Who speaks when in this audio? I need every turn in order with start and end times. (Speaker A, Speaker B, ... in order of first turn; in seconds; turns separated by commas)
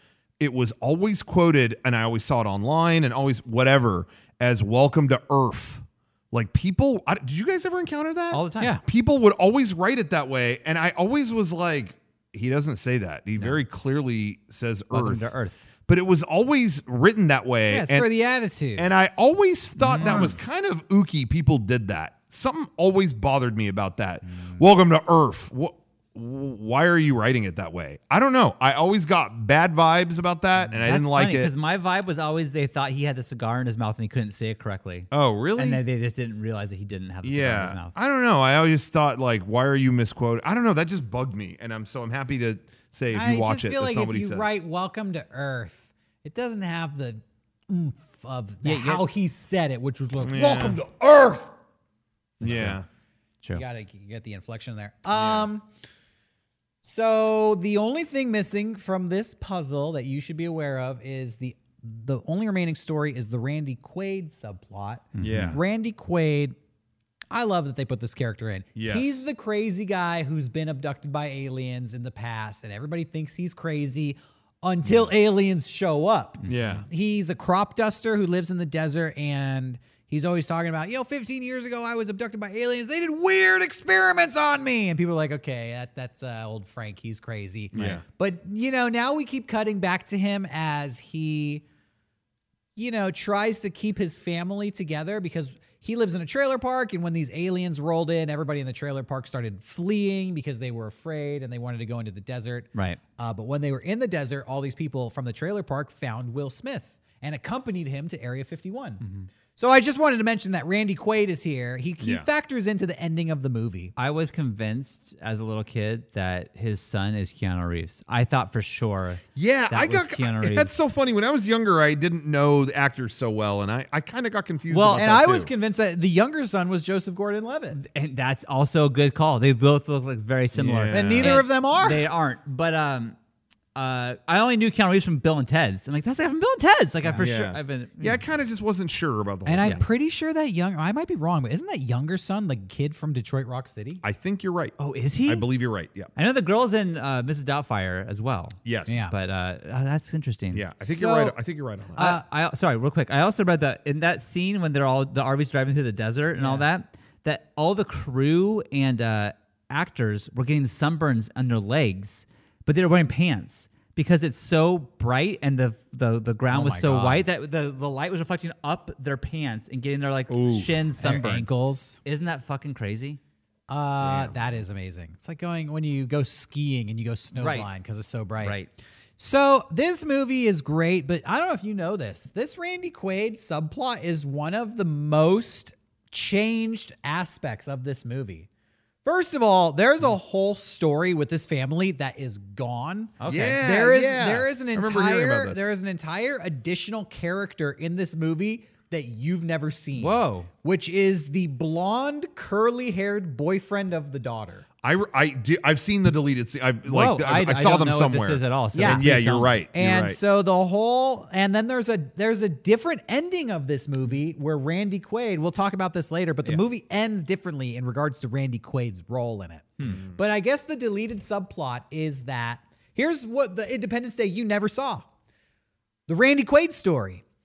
Speaker A: 0.4-15.3, Speaker B: 8.3-8.8, Speaker B: 14.9-15.6, Speaker A: 15.9-18.1, Speaker C: 17.7-18.9, Speaker A: 18.8-31.5, Speaker B: 19.8-20.4, Speaker C: 20.0-20.4, Speaker B: 30.8-38.0, Speaker A: 35.1-35.8, Speaker A: 37.2-44.6, Speaker C: 43.1-51.5, Speaker B: 48.6-49.0, Speaker A: 50.2-50.8, Speaker C: 52.4-52.8, Speaker A: 52.4-52.9, Speaker C: 53.5-55.6, Speaker A: 55.1-55.5, Speaker C: 56.8-66.5, Speaker B: 65.2-65.5, Speaker A: 65.2-65.6, Speaker C: 67.3-91.6, Speaker A: 68.8-69.2, Speaker B: 76.4-76.8, Speaker A: 76.5-76.8, Speaker A: 87.7-88.0, Speaker C: 92.8-109.0, Speaker B: 102.8-103.0, Speaker B: 109.0-109.3, Speaker C: 109.6-113.9, Speaker A: 112.0-112.3, Speaker B: 114.0-120.7, Speaker A: 119.3-125.5, Speaker B: 124.7-125.1, Speaker C: 124.9-127.8, Speaker B: 127.7-133.2, Speaker A: 130.6-131.4, Speaker C: 130.9-132.1, Speaker B: 133.8-138.2, Speaker A: 137.2-139.8, Speaker C: 139.5-144.0, Speaker A: 144.0-144.8, Speaker B: 144.8-145.5, Speaker A: 145.3-146.1, Speaker B: 146.2-150.6, Speaker A: 148.7-149.0, Speaker C: 148.9-149.1, Speaker A: 150.5-152.1, Speaker C: 150.8-151.4, Speaker C: 152.0-152.2, Speaker B: 152.0-171.5, Speaker C: 156.4-156.7, Speaker C: 166.5-167.2, Speaker A: 170.3-170.7, Speaker C: 171.0-172.0, Speaker B: 172.0-173.2, Speaker C: 173.7-178.6, Speaker A: 174.0-174.6, Speaker B: 177.4-177.7, Speaker B: 178.4-178.7, Speaker C: 179.2-188.5, Speaker C: 189.1-204.7, Speaker B: 193.2-193.6, Speaker A: 193.3-195.6, Speaker B: 199.9-200.5, Speaker A: 204.8-210.2, Speaker B: 206.9-209.6, Speaker C: 208.8-209.1, Speaker C: 209.7-225.1, Speaker C: 226.1-227.2